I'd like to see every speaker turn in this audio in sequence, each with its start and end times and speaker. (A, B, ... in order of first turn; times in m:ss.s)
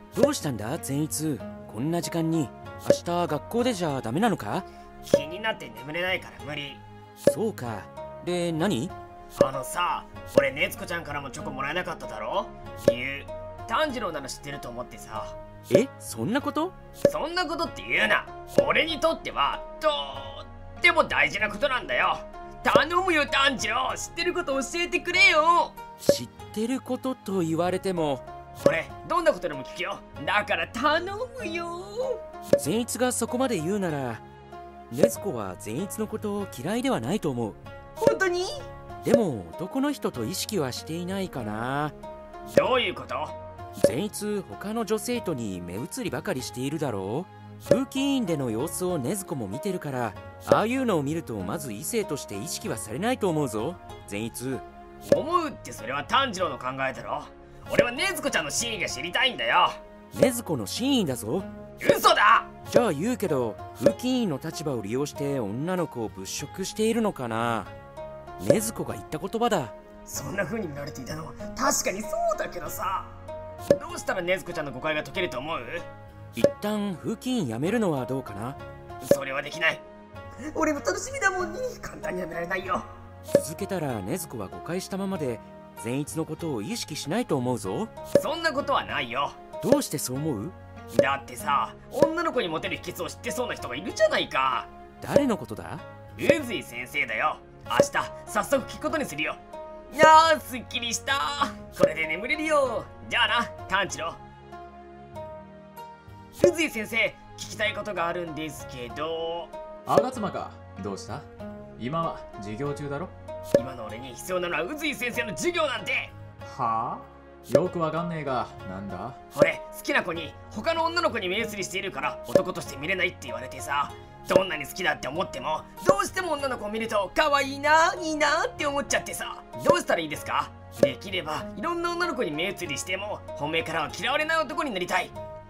0:00.1-0:04.7 A
0:05.0-0:06.8 B
0:07.2-0:08.9 A
0:09.3-0:15.4 B
0:15.7-0:16.7 A
0:17.0-0:25.8 B
0:26.0-0:28.2 A
0:28.6-0:32.2 B
0:32.6-0:34.2 A
0:34.9-0:37.6 A
0:38.0-0:38.6 B
0:39.0-0:41.9 A
0:42.5-0:43.4 B
0:43.8-0:54.6 A
0:55.0-0:59.8 B
1:00.1-1:01.5 A
1:01.8-1:02.5 B
1:02.7-1:07.7 A
1:08.4-1:09.8 A
1:10.0-1:13.1 B
1:13.6-1:15.9 B
1:16.4-1:18.6 A
1:19.0-1:19.8 B
1:20.5-1:22.9 B
1:23.3-1:27.9 A
1:28.1-1:29.4 B
1:29.6-1:30.6 A
1:30.9-1:34.7 B
1:35.0-1:35.8 A
1:36.2-1:44.2 B
1:46.4-1:49.5 B
1:49.9-1:51.3 C
1:51.8-1:53.1 C
1:53.6-1:56.1 B
1:56.4-1:59.2 C
1:59.3-2:15.2 B